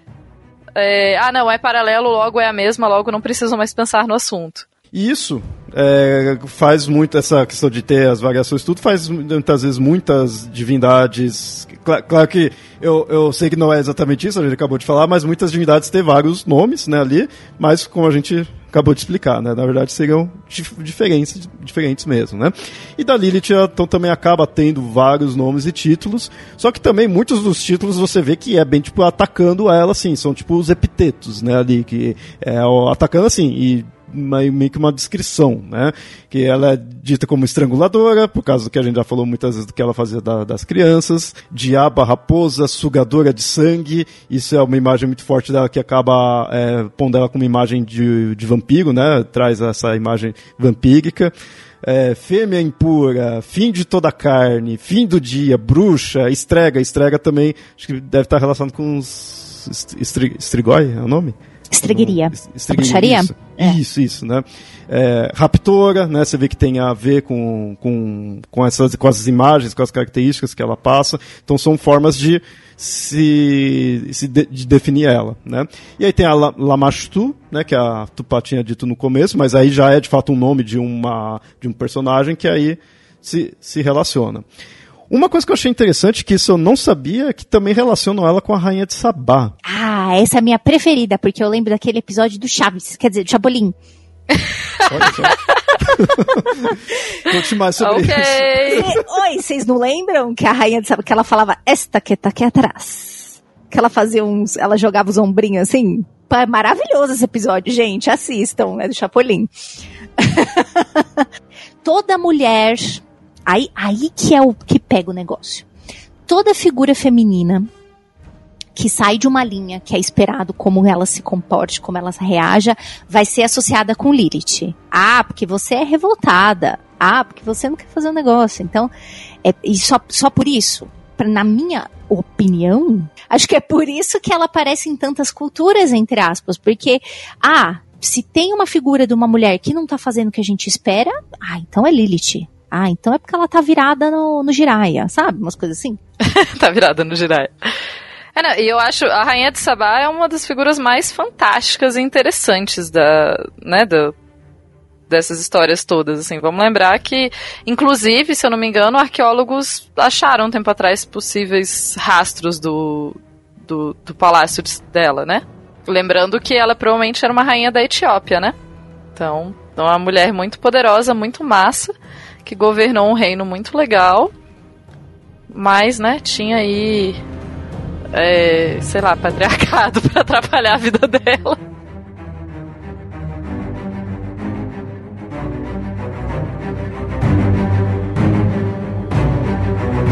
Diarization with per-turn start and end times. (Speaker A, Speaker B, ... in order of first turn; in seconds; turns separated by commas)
Speaker A: 0.8-4.7, Speaker B: 4.9-61.4, Speaker C: 61.7-63.8, Speaker B: 61.9-84.4, Speaker B: 85.1-89.5, Speaker C: 89.7-93.7, Speaker A: 94.4-95.3, Speaker B: 94.9-99.0, Speaker A: 97.8-98.8, Speaker C: 98.7-109.5, Speaker C: 110.2-111.2, Speaker C: 111.8-115.7, Speaker C: 116.3-117.7, Speaker C: 118.8-128.9, Speaker C: 129.4-146.0, Speaker A: 146.2-147.5, Speaker A: 148.3-154.1, Speaker A: 155.1-168.5, Speaker A: 169.2-171.9, Speaker A: 172.4-174.3, Speaker A: 175.5-177.2, Speaker A: 178.1-181.6